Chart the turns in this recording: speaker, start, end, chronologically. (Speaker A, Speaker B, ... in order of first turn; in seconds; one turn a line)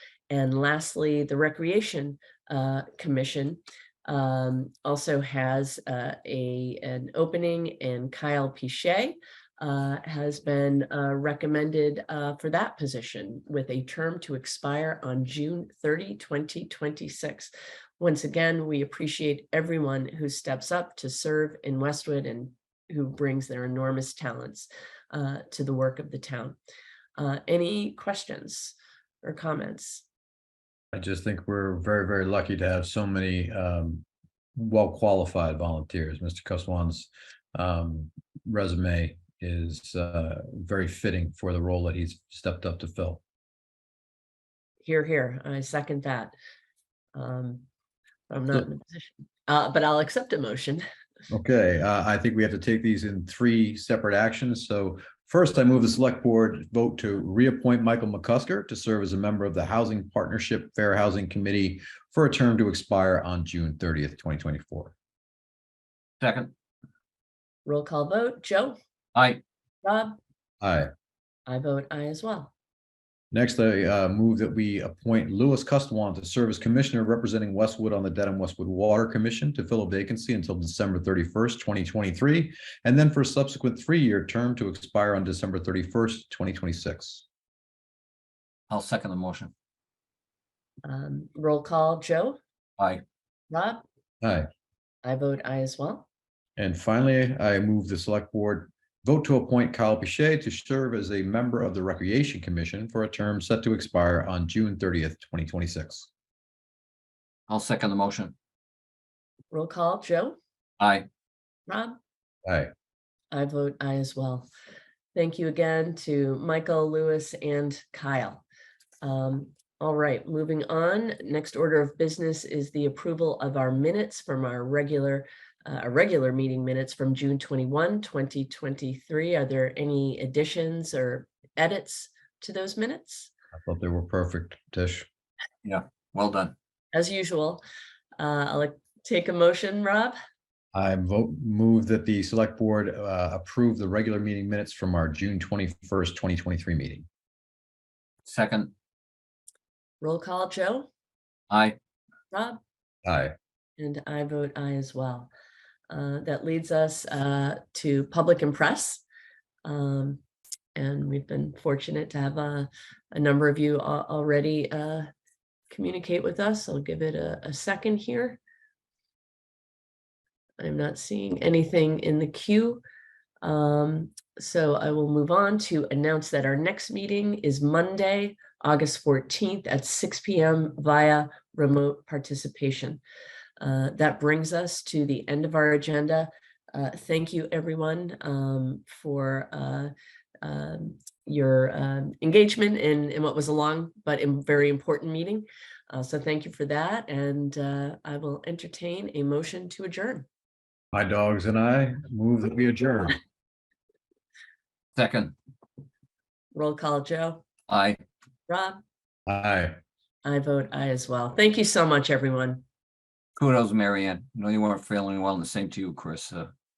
Speaker A: 0.3-26.6
Speaker A: 27.2-30.1
Speaker B: 30.9-34.0
Speaker B: 34.6-43.2
Speaker A: 44.8-46.3
Speaker A: 47.1-47.6
Speaker A: 48.3-50.8
Speaker B: 51.3-64.9
Speaker C: 66.2-66.5
Speaker A: 67.7-68.8
Speaker C: 69.2-69.4
Speaker A: 69.8-70.2
Speaker B: 70.6-70.9
Speaker A: 71.5-72.5
Speaker B: 73.3-87.2
Speaker C: 88.7-89.5
Speaker A: 90.8-92.4
Speaker C: 92.8-93.0
Speaker A: 93.5-93.8
Speaker B: 94.2-94.5
Speaker A: 95.0-96.1
Speaker B: 96.6-106.1
Speaker C: 107.5-108.3
Speaker A: 109.5-110.4
Speaker C: 110.8-111.1
Speaker A: 111.7-112.0
Speaker B: 112.5-112.7
Speaker A: 113.3-114.5
Speaker A: 115.2-118.4
Speaker A: 119.0-133.3
Speaker B: 133.6-135.1
Speaker C: 135.6-136.5
Speaker A: 136.9-137.6
Speaker A: 138.2-140.2
Speaker B: 140.7-147.1
Speaker C: 148.2-148.7
Speaker A: 150.0-150.9
Speaker C: 151.5-151.8
Speaker A: 152.3-152.6
Speaker B: 153.1-153.3
Speaker A: 153.8-155.3
Speaker A: 155.9-159.0
Speaker A: 159.7-160.2
Speaker A: 160.8-165.1
Speaker A: 165.7-168.4
Speaker A: 170.6-172.8
Speaker A: 173.4-183.0
Speaker A: 183.6-200.3
Speaker B: 200.9-203.2
Speaker C: 205.0-205.3
Speaker A: 206.5-207.4
Speaker C: 207.7-208.0
Speaker A: 208.5-208.8
Speaker B: 209.3-209.8
Speaker A: 210.2-212.6
Speaker C: 213.4-216.5